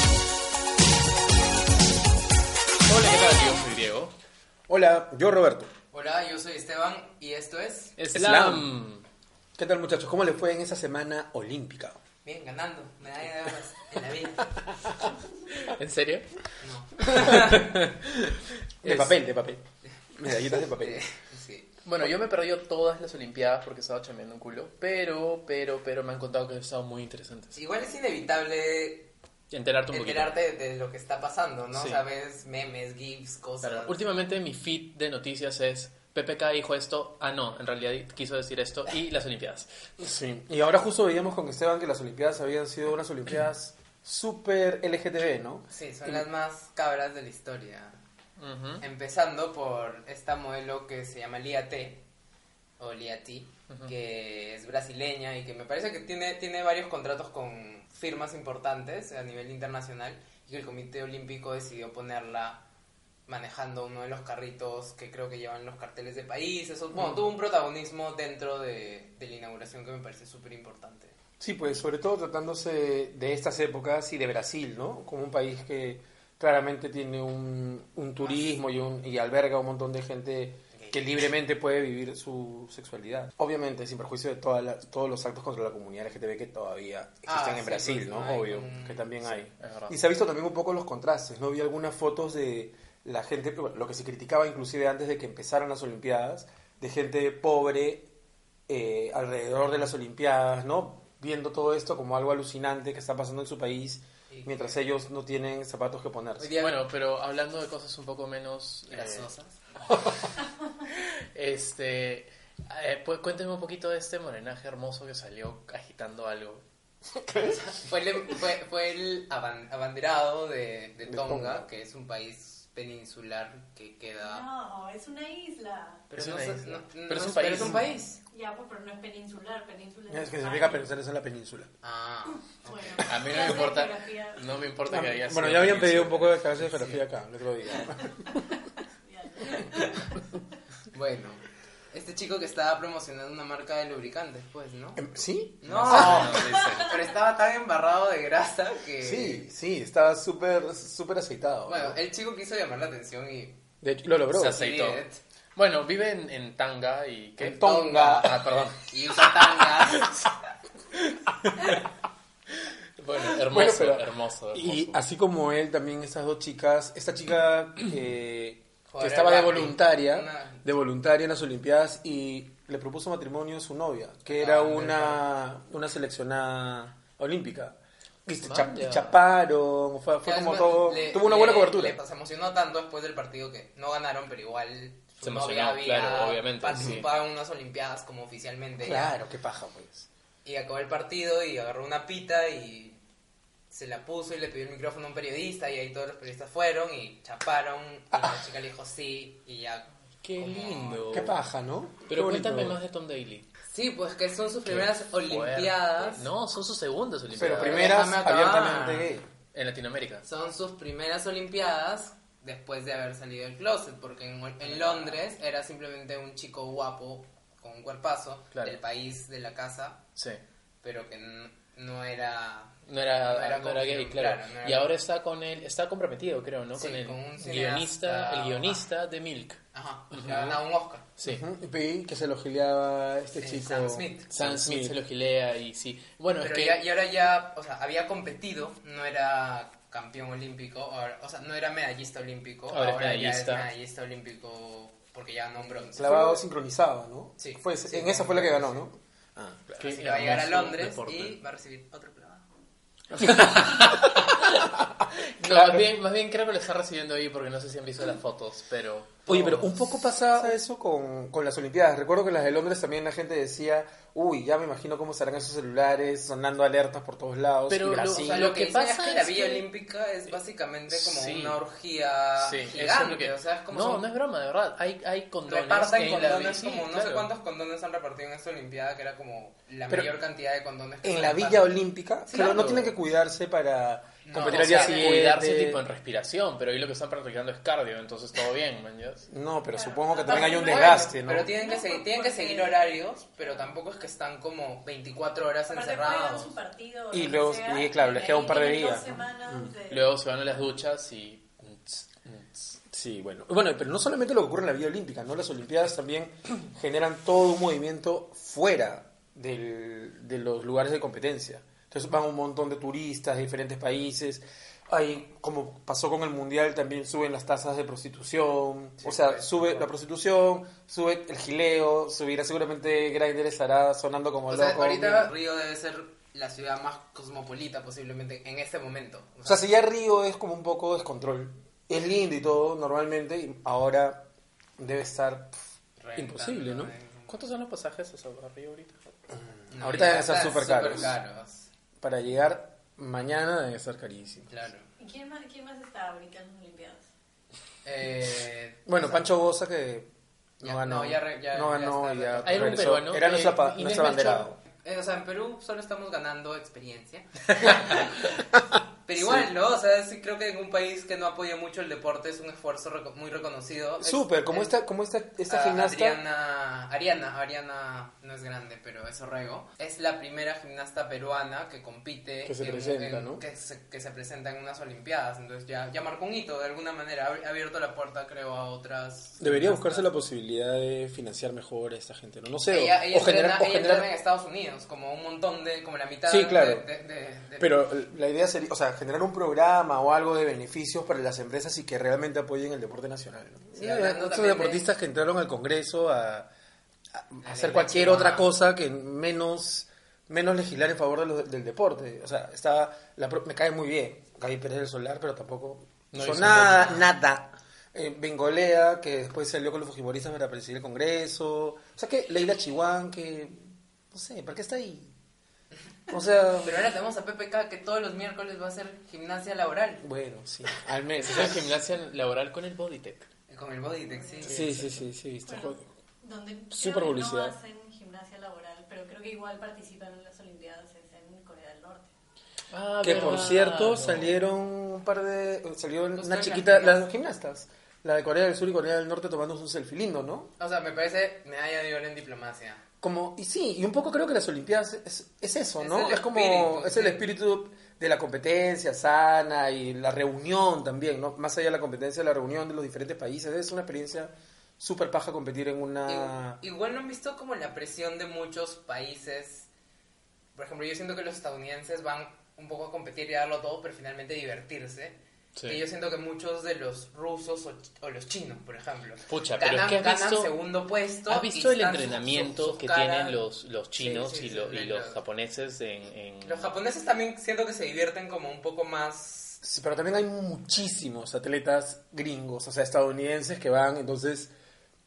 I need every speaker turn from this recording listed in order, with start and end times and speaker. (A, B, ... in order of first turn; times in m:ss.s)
0:02.9-0:04.1 A
0:04.7-0:05.7 B
0:05.9-0:08.0 C
0:08.0-0:09.0 A
0:08.1-0:08.7 B
0:09.6-0:12.0 B
0:12.2-0:14.5 C
0:15.6-0:16.3 A
0:16.6-0:17.8 C
0:17.1-0:17.4 B
0:17.3-0:17.7 A
0:18.8-0:21.0 B
0:20.6-0:21.7 C
0:21.8-0:27.6 A
0:27.5-0:29.1 C
0:29.5-0:30.3 A
0:29.9-0:34.0 C
0:31.7-0:32.0 A
0:33.6-0:39.7 A
0:40.0-0:46.2 B
0:45.7-0:48.0 C
0:48.4-0:48.8 A
0:48.8-0:52.0 C
0:52.8-1:02.6 C
1:03.3-1:11.2 C
1:11.4-1:38.1 B
1:18.2-1:18.6 C
1:27.2-1:29.1 C
1:29.2-1:29.9 A
1:38.7-1:46.5 B
1:44.3-1:44.8 C
1:46.4-1:46.8 C
1:46.6-1:49.3 A
1:48.9-1:49.6 C
1:50.9-1:56.6 A
1:57.1-1:57.6 B
1:57.4-2:04.4 C
2:01.0-2:01.6 B
2:04.2-2:06.1 D
2:06.1-2:08.2 C
2:06.1-2:07.9 A
2:08.1-2:10.8 D
2:10.1-2:11.7 B
2:11.8-2:13.0 C
2:12.6-2:14.5 D
2:13.0-2:16.5 A
2:14.9-2:18.4 B
2:16.7-2:17.0 C
2:18.3-2:20.2 D
2:20.9-2:25.0 C
2:25.0-2:26.4 B
2:25.6-2:29.5 C
2:25.6-2:27.0 A
2:26.4-2:26.6 D
2:29.0-2:32.0 B
2:31.6-2:33.6 C
2:33.8-2:34.6 B
2:34.3-2:35.0 A
2:34.6-2:35.2 C
2:35.6-2:38.8 A
2:37.4-2:38.4 B
2:37.6-2:40.2 C
2:43.0-2:45.0 A
2:43.2-3:02.0 B
2:48.9-2:50.6 C
2:54.3-2:54.9 C
2:54.6-2:55.2 A
2:58.4-2:59.2 A
3:00.2-3:09.2 C
3:05.2-3:07.1 A
3:06.8-3:07.0 B
3:08.8-3:10.1 B
3:10.4-3:13.0 C
3:13.7-3:21.2 C
3:20.2-3:21.3 A
3:21.1-3:22.8 B
3:22.1-3:23.5 A
3:23.7-3:26.3 C
3:24.7-3:28.0 A
3:27.4-3:29.2 B
3:27.5-3:29.2 C
3:29.5-3:30.2 A
3:30.2-3:40.0 C
3:34.6-3:35.2 A
3:38.5-3:38.8 A
3:40.2-3:40.4 A
3:40.8-3:44.9 C
3:42.8-3:50.6 A
3:46.7-3:48.8 C
3:49.7-3:51.0 C
3:51.2-3:51.4 A
3:51.2-3:55.0 B
3:53.4-3:54.3 C
3:54.3-3:56.8 A
3:56.4-4:06.4 C
4:02.7-4:03.7 A
4:05.9-4:09.6 B
4:07.4-4:08.8 C
4:09.7-4:12.4 C
4:09.8-4:11.4 A
4:13.1-4:14.8 B
4:13.2-4:14.7 A
4:15.4-4:19.6 A
4:15.4-4:15.8 B
4:19.3-4:19.7 C
4:19.3-4:28.5 B
4:27.7-4:29.6 A
4:28.2-4:34.1 C
4:30.9-4:31.6 A
4:32.4-4:37.3 A
4:35.4-4:41.7 C
4:39.9-4:40.2 B
4:41.0-4:45.8 B
4:42.2-4:42.7 C
4:42.4-4:43.0 A
4:44.2-4:45.2 C
4:44.4-4:49.2 A
4:49.3-4:51.5 B
4:49.7-4:52.8 D
4:50.2-4:56.5 C
4:55.7-5:00.6 D
4:57.1-4:59.8 B
4:59.9-5:02.5 A
5:02.7-5:25.3 B
5:19.0-5:19.8 C
5:24.5-5:29.6 C
5:29.4-5:35.6 B
5:36.0-5:37.4 C
5:36.2-5:36.9 B
5:37.3-5:39.0 A
5:39.4-5:41.2 B
5:39.7-5:41.7 C
5:42.0-5:44.5 B
5:44.5-5:44.9 C
5:45.0-5:47.1 D
5:47.8-5:49.3 C
5:48.8-5:54.6 B
5:50.6-5:52.9 C
5:52.4-5:54.5 A
5:54.7-5:58.3 C
5:59.0-6:04.8 C
5:59.2-5:59.5 B
6:04.0-6:06.2 B
6:05.5-6:20.1 C
6:12.4-6:13.4 B
6:19.4-6:24.1 B
6:22.7-6:27.8 C
6:26.3-6:26.9 B
6:27.6-6:36.5 B
6:33.7-6:34.8 C
6:37.1-6:55.1 B
6:37.4-6:38.5 C
6:46.1-6:47.1 A
6:56.1-6:56.8 B
6:56.6-7:00.0 C
7:00.0-7:01.7 B
7:01.1-7:03.3 A
7:03.5-7:04.6 C
7:04.4-7:05.0 A
7:04.5-7:05.9 B
7:05.5-7:12.1 D
7:06.7-7:07.6 B
7:12.7-7:14.4 A
7:13.0-7:20.5 B
7:16.2-7:17.1 C
7:20.6-7:22.8 C
7:23.0-7:36.6 B
7:25.8-7:27.2 C
7:36.0-7:39.7 C
7:40.5-7:53.4 C
7:49.3-7:50.5 A
7:51.3-7:56.7 A
7:53.9-7:55.2 C
7:56.4-7:59.6 C
7:59.6-8:04.5 B